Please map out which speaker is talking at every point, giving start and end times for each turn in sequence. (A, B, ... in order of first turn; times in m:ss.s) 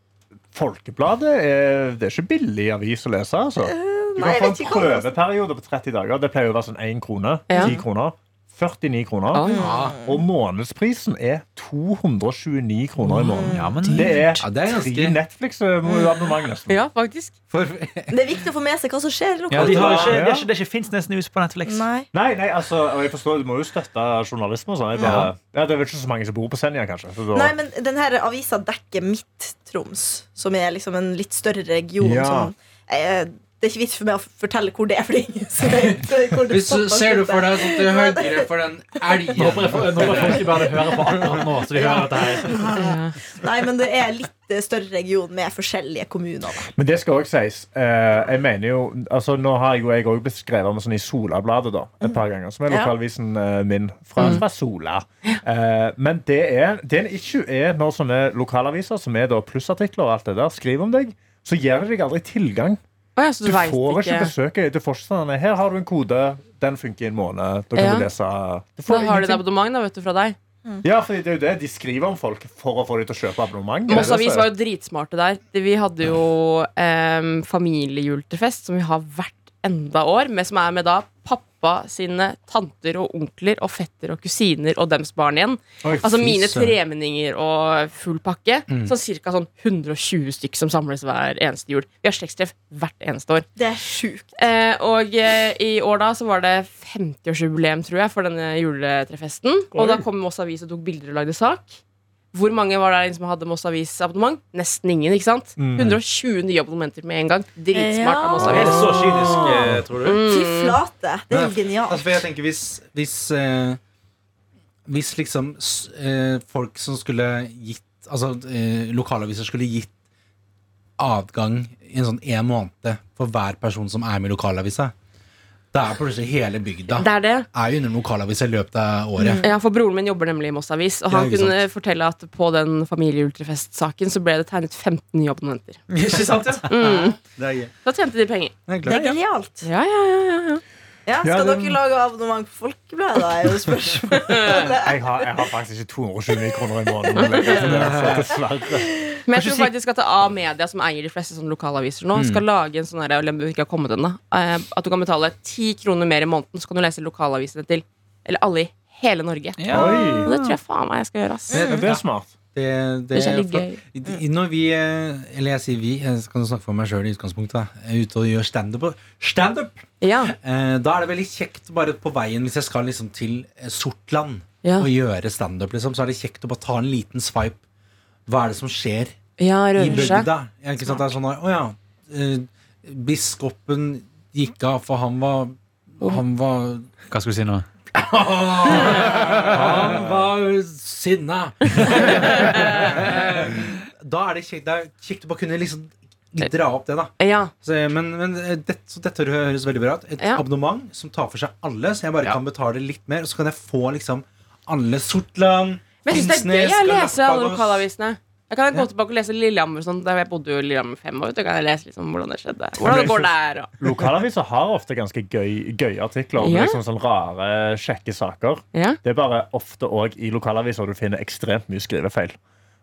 0:00.5-0:16.8 A
0:03.6-0:05.1 B
0:07.5-0:07.8 C
0:07.5-0:07.8 B
0:09.3-0:09.7 C
0:09.5-0:10.0 D
0:09.5-0:10.2 B
0:13.1-0:14.0 B
0:13.4-0:14.1 E
0:14.4-0:15.2 D
0:16.7-0:17.3 C
0:17.5-0:18.2 D
0:18.1-0:20.2 B
0:19.5-0:21.9 E
0:19.5-0:20.5 A
0:21.6-0:22.1 B
0:22.1-0:27.5 A
0:24.9-0:25.3 B
0:27.3-0:38.5 B
0:32.0-0:32.5 A
0:36.5-0:40.7 D
0:39.4-0:42.7 E
0:41.7-0:46.7 B
0:42.7-0:43.1 C
0:46.7-1:02.8 A
0:52.7-0:52.9 B
0:54.2-0:54.4 C
1:03.2-1:04.3 C
1:03.4-1:09.4 A
1:07.8-1:08.1 C
1:08.9-1:10.4 C
1:10.8-1:14.5 A
1:13.9-1:33.5 C
1:25.9-1:26.8 D
1:28.7-1:28.9 D
1:33.6-1:34.4 B
1:34.4-1:41.8 C
1:39.7-1:40.0 A
1:42.3-1:48.8 C
1:45.6-1:46.0 A
1:47.7-1:52.1 B
1:48.4-1:50.2 E
1:48.6-1:49.7 D
1:50.0-1:50.8 C
1:51.3-1:53.8 D
1:54.9-1:59.9 D
2:01.0-2:04.9 D
2:05.7-2:09.4 D
2:06.9-2:07.5 C
2:09.2-2:09.5 B
2:09.4-2:15.9 C
2:11.1-2:11.6 D
2:15.9-2:17.7 D
2:16.6-2:17.2 C
2:17.8-2:18.6 C
2:18.7-2:19.2 D
2:18.8-2:19.6 B
2:19.6-2:20.6 C
2:21.1-2:25.2 B
2:21.2-2:21.8 A
2:24.2-2:24.7 C
2:24.8-2:28.9 A
2:27.1-2:27.7 C
2:27.6-2:28.3 D
2:29.2-2:41.7 C
2:29.3-2:29.7 E
2:32.1-2:32.4 D
2:39.6-2:40.6 E
2:39.7-2:40.3 A
2:41.5-2:41.9 B
2:41.5-2:57.6 D
2:41.6-2:42.3 A
2:43.1-2:43.8 C
2:50.0-2:50.3 C
2:54.6-2:54.9 C
2:58.3-2:59.2 D
2:59.4-3:00.3 C
2:59.7-3:06.9 D
3:07.1-3:07.6 E
3:07.9-3:27.8 D
3:08.7-3:09.1 C
3:08.8-3:09.6 E
3:11.8-3:13.0 E
3:12.4-3:12.7 C
3:17.2-3:17.5 C
3:26.0-3:33.7 C
3:32.8-3:42.4 A
3:36.4-3:36.8 C
3:38.7-3:39.0 C